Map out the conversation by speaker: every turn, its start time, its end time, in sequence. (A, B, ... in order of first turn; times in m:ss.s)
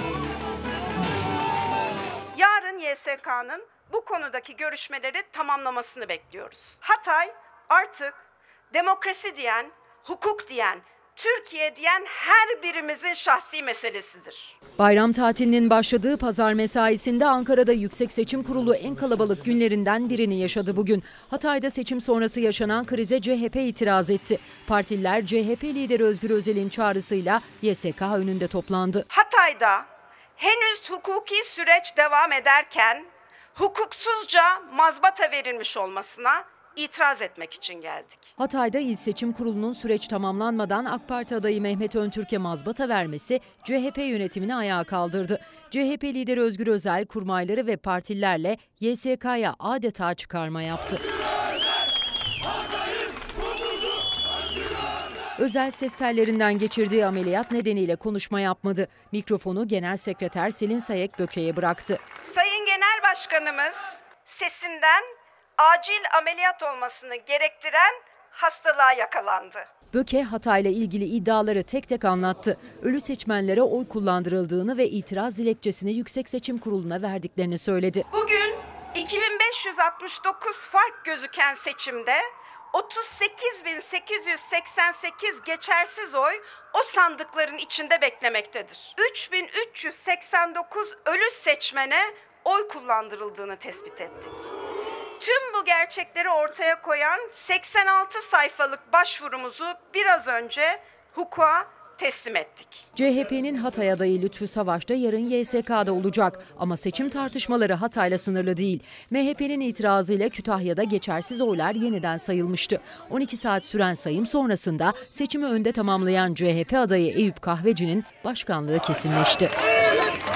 0:02.3-0:14.6 A
0:14.8-0:29.1 B
0:29.1-0:38.3 A
0:38.4-0:51.0 B
0:55.4-1:02.0 B
1:02.2-1:09.7 A
1:09.9-1:18.1 B
1:18.1-1:34.5 A
1:35.2-1:42.9 A
1:43.0-1:59.5 B